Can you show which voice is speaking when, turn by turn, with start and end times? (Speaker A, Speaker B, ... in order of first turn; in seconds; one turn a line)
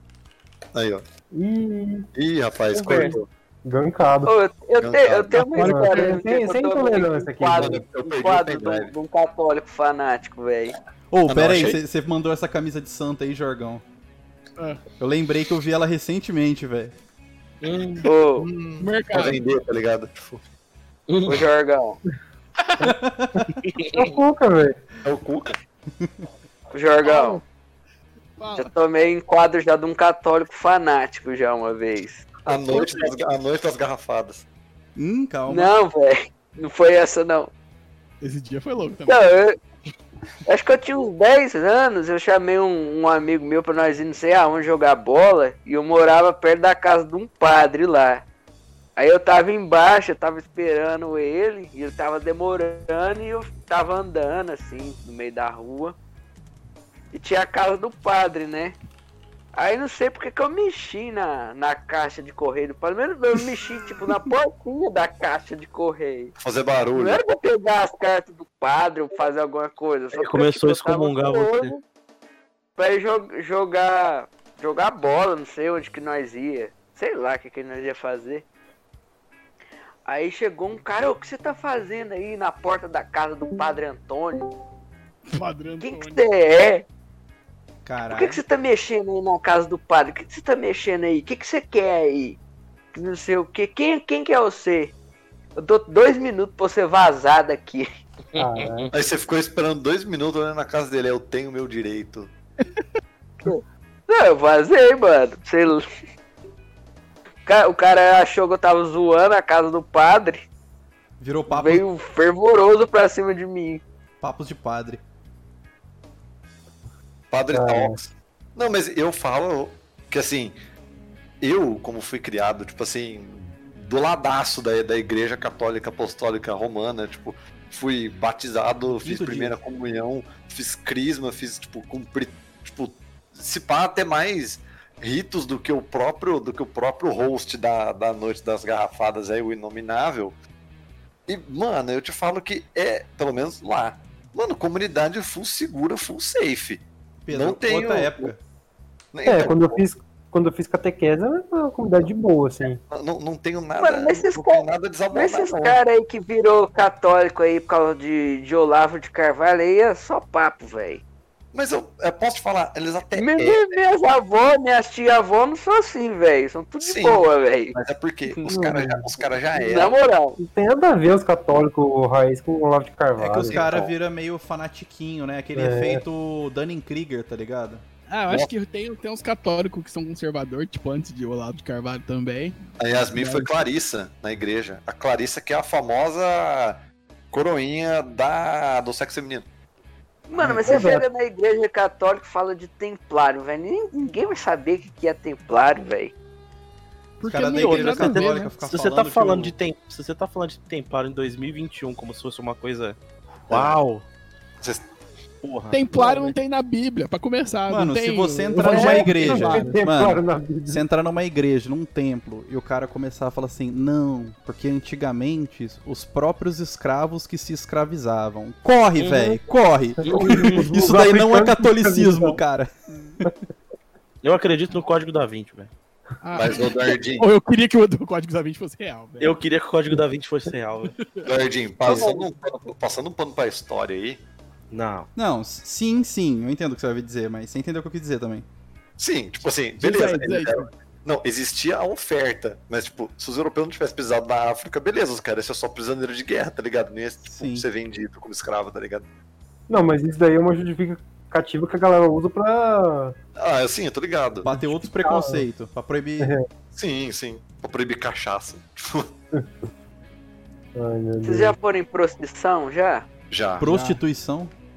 Speaker A: 0.7-1.0
Speaker B: 1.3-2.1
Speaker A: 2.1-3.3
Speaker C: 2.7-3.1
Speaker B: 2.9-4.3
Speaker D: 4.2-10.8
Speaker A: 4.8-5.4
Speaker E: 5.4-6.2
Speaker B: 5.6-7.8
Speaker A: 7.5-8.9
Speaker F: 11.1-13.8
Speaker A: 11.3-11.8
Speaker F: 15.0-16.9
Speaker C: 17.6-18.1
Speaker D: 18.0-18.5
Speaker A: 18.4-20.3
Speaker E: 18.8-19.4
Speaker C: 21.1-21.4
Speaker D: 21.2-22.0
Speaker E: 22.6-22.9
Speaker F: 22.8-23.5
Speaker C: 23.7-24.1
Speaker B: 23.9-24.8
Speaker A: 25.0-25.5
Speaker D: 26.7-27.4
Speaker E: 27.0-27.4
Speaker E: 28.4-28.7
Speaker D: 28.5-33.1
Speaker A: 32.5-34.4
Speaker F: 35.0-35.7
Speaker D: 35.5-37.5
Speaker E: 38.2-39.2
Speaker D: 39.1-39.6
Speaker D: 40.5-48.2
Speaker D: 49.0-56.0
Speaker D: 57.1-58.7
Speaker D: 59.5-66.3
Speaker A: 66.4-67.2
Speaker D: 66.9-71.8
Speaker C: 70.1-71.7
Speaker D: 72.8-78.4
Speaker D: 80.0-84.5
Speaker E: 85.3-86.2
Speaker D: 85.8-86.8
Speaker F: 87.8-88.4
Speaker D: 88.1-92.4
Speaker D: 92.9-94.9
Speaker D: 95.5-97.9
Speaker C: 98.3-98.9
Speaker B: 98.3-98.9
Speaker A: 98.9-102.3
Speaker D: 103.4-105.8
Speaker D: 107.5-110.5
Speaker F: 111.2-111.8
Speaker D: 111.5-113.8
Speaker F: 114.2-115.0
Speaker A: 117.3-120.6
Speaker B: 117.5-117.9
Speaker A: 121.4-140.3
Speaker F: 129.0-129.6
Speaker A: 141.3-148.3
Speaker F: 147.2-148.4
Speaker A: 149.1-149.8
Speaker B: 149.2-152.8
Speaker A: 152.9-155.8
Speaker D: 153.8-161.0
Speaker A: 161.5-163.7
Speaker D: 163.1-167.8
Speaker A: 166.8-169.9
Speaker B: 168.5-169.0
Speaker D: 169.6-170.4
Speaker B: 170.4-173.6
Speaker F: 173.2-177.8
Speaker A: 173.4-173.9
Speaker B: 175.6-176.0
Speaker E: 178.1-182.6
Speaker A: 182.8-186.8
Speaker E: 183.2-183.4
Speaker A: 187.3-189.5
Speaker D: 190.3-196.1
Speaker F: 190.4-190.7
Speaker B: 190.4-191.1
Speaker E: 197.2-198.5
Speaker F: 197.2-199.6
Speaker C: 197.4-203.0
Speaker A: 203.5-203.8
Speaker C: 203.5-204.0
Speaker C: 205.4-205.8
Speaker E: 205.7-209.8
Speaker B: 205.9-206.3
Speaker F: 207.7-223.3
Speaker B: 208.6-210.8
Speaker C: 219.0-219.4
Speaker B: 220.0-222.4
Speaker C: 220.0-220.6
Speaker C: 224.2-225.7
Speaker E: 226.2-229.3
Speaker A: 226.3-227.3
Speaker C: 229.2-230.9
Speaker E: 231.0-231.3
Speaker A: 231.2-234.2
Speaker C: 234.7-235.1
Speaker F: 235.2-238.4
Speaker A: 239.0-249.1
Speaker E: 239.8-240.7
Speaker F: 247.3-247.7
Speaker B: 249.7-253.2
Speaker A: 253.4-254.5
Speaker F: 254.4-256.4
Speaker B: 254.4-255.4
Speaker B: 256.2-256.4
Speaker A: 256.7-259.1
Speaker B: 260.7-261.5
Speaker D: 261.2-263.1
Speaker A: 263.3-263.7
Speaker F: 263.6-264.5
Speaker E: 263.7-263.9